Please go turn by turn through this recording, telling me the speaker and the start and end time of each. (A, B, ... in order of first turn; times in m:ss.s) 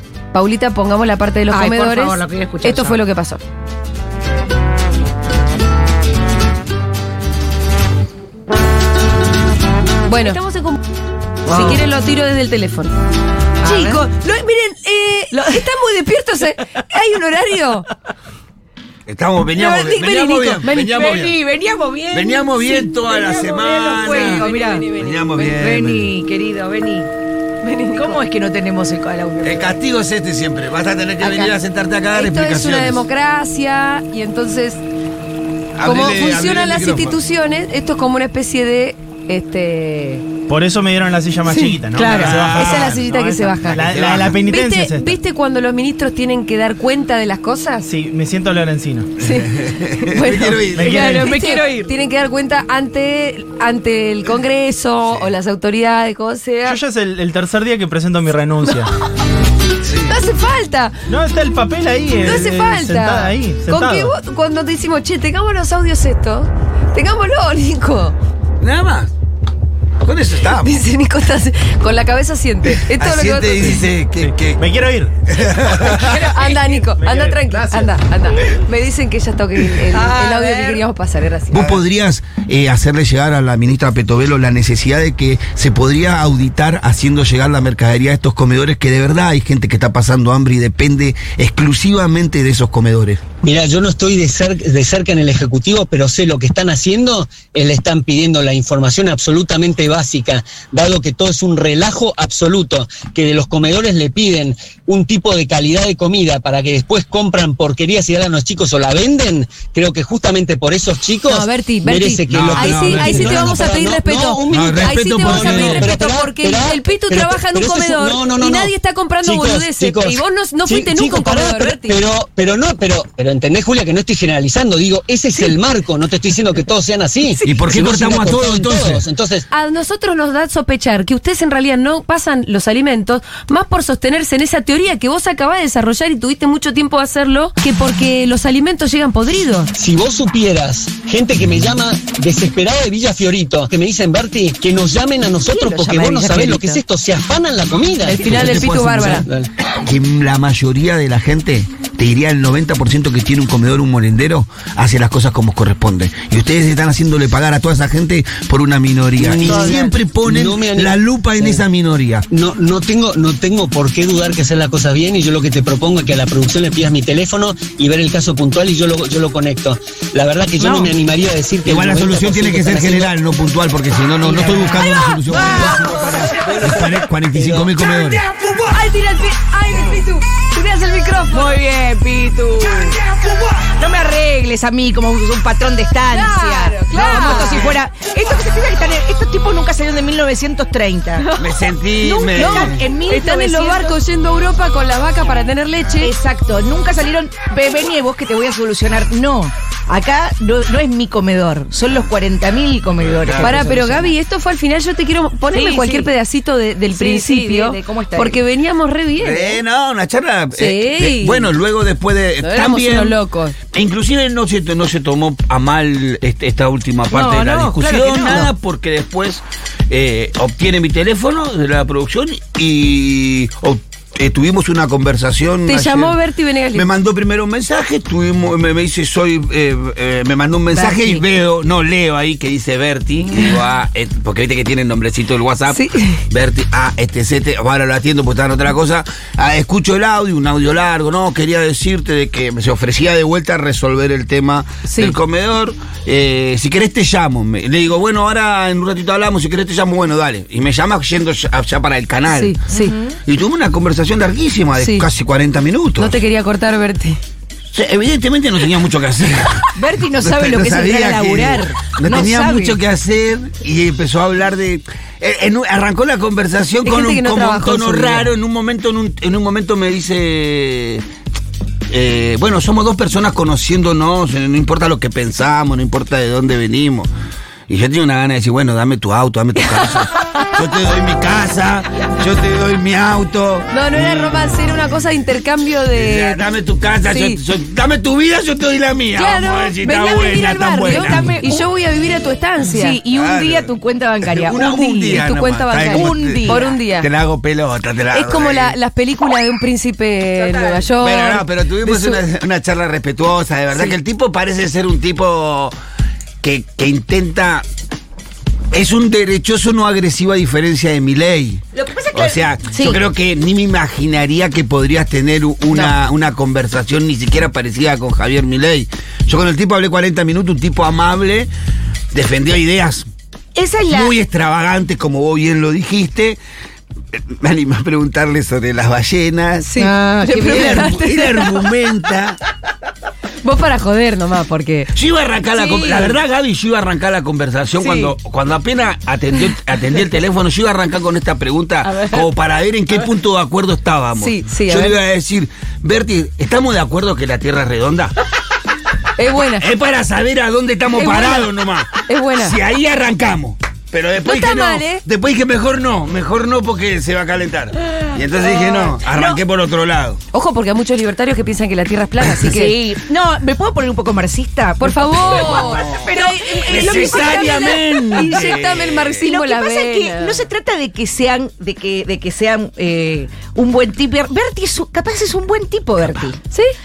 0:00.3-0:03.4 A
0:01.5-0:03.0 B
0:10.0-0:10.8 A
0:11.5-0:11.8 B
0:11.5-0:12.9 A
0:13.6-0:14.1 B
0:13.6-0:17.9 A
0:15.3-0:15.7 B
0:19.1-0:21.4 C
0:19.6-0:21.1 A
0:20.7-0:27.1 B
0:22.1-0:26.1 C
0:24.0-0:25.3 A
0:27.6-0:28.2 A
0:27.9-0:29.7 B
0:29.4-0:33.0 C
0:31.2-0:31.5 B
0:32.1-0:34.8 A
0:35.8-0:37.2 C
0:35.8-0:40.3 A
0:40.5-0:45.2 D
0:41.5-0:42.4 B
0:42.0-0:43.0 C
0:42.4-0:43.9 A
0:43.7-0:44.4 C
0:44.5-0:47.9 A
0:47.9-0:49.1 D
0:49.2-0:56.8 A
0:49.3-0:51.0 C
0:50.7-0:51.5 D
0:50.9-0:51.9 B
0:56.7-0:58.9 D
0:59.8-1:00.2 C
1:00.1-1:01.0 A
1:01.1-1:04.1 D
1:02.2-1:08.2 A
1:08.6-1:09.1 C
1:10.0-1:10.8 C
1:10.5-1:13.8 A
1:12.8-1:14.7 C
1:14.2-1:16.3 D
1:15.3-1:16.2 C
1:16.1-1:21.8 A
1:16.3-1:16.8 B
1:16.8-1:18.0 D
1:19.9-1:20.8 B
1:21.5-1:33.2 C
1:33.4-2:09.5 E
1:51.3-2:02.0 A
1:52.3-1:53.6 C
1:54.5-1:55.9 C
2:05.3-2:05.6 A
2:07.5-2:09.0 C
2:09.5-2:19.7 A
2:19.8-2:29.5 E
2:25.5-2:26.8 B
2:28.1-2:29.3 A
2:28.2-2:42.3 C
2:39.2-2:41.6 E
2:39.5-2:39.8 D
2:42.3-2:53.1 E
2:50.6-2:50.9 B
2:51.6-2:58.3 C
2:54.2-2:56.2 B
2:54.9-2:55.8 A
2:55.3-2:57.7 E
2:57.8-3:01.5 A
3:01.3-3:03.0 B
3:03.6-3:11.3 B
3:06.1-3:07.8 A
3:11.2-3:11.4 A
3:11.4-3:12.9 C
3:12.0-3:14.0 B
3:12.4-3:16.1 A
3:16.0-3:24.1 B
3:23.0-3:23.6 C
3:23.4-3:29.6 A
3:25.5-3:26.1 B
3:26.9-3:28.4 B
3:29.2-3:33.2 C
3:30.6-3:31.5 A
3:32.4-3:33.6 A
3:33.7-3:46.2 C
3:37.1-3:38.5 B
3:45.7-3:46.9 A
3:46.7-4:12.6 C
3:50.7-3:51.2 B
3:55.7-3:56.2 A
4:04.9-4:05.2 A
4:12.3-4:13.0 A
4:12.7-4:13.2 B
4:13.2-4:16.2 C
4:14.8-4:15.1 A
4:16.0-4:17.2 A
4:17.7-4:31.0 C
4:19.8-4:22.8 B
4:26.8-4:28.3 A
4:31.9-4:37.1 C
4:37.7-4:44.5 C
4:39.6-4:40.6 A
4:43.7-4:46.4 A
4:45.9-4:51.4 C
4:47.0-4:47.4 A
4:49.1-4:53.0 A
4:50.8-4:51.7 B
4:52.6-4:55.3 B
4:53.1-4:53.7 C
4:54.2-4:58.8 C
4:54.6-4:57.1 A
4:55.8-4:56.8 B
4:58.1-5:02.2 A
5:00.4-5:00.9 B
5:01.0-5:05.7 C
5:06.4-5:07.7 C
5:08.7-5:21.5 C
5:11.7-5:13.0 B
5:22.1-5:23.1 C
5:23.6-5:24.2 B
5:23.9-5:26.4 C
5:27.1-5:29.7 C
5:29.6-5:31.6 A
5:29.8-5:30.9 B
5:30.4-5:32.4 C
5:33.4-5:34.9 A
5:34.9-5:48.2 C
5:35.5-5:36.2 A
5:37.8-5:38.2 A
5:41.8-5:42.2 A
5:44.2-5:45.0 A
5:49.2-5:49.7 A
5:49.6-6:00.2 C
5:50.9-5:52.6 A
5:54.2-5:55.0 A
6:00.3-6:02.8 A
6:02.4-6:08.6 B
6:04.8-6:10.4 A
6:05.3-6:06.1 C
6:06.7-6:09.2 C
6:09.2-6:16.4 B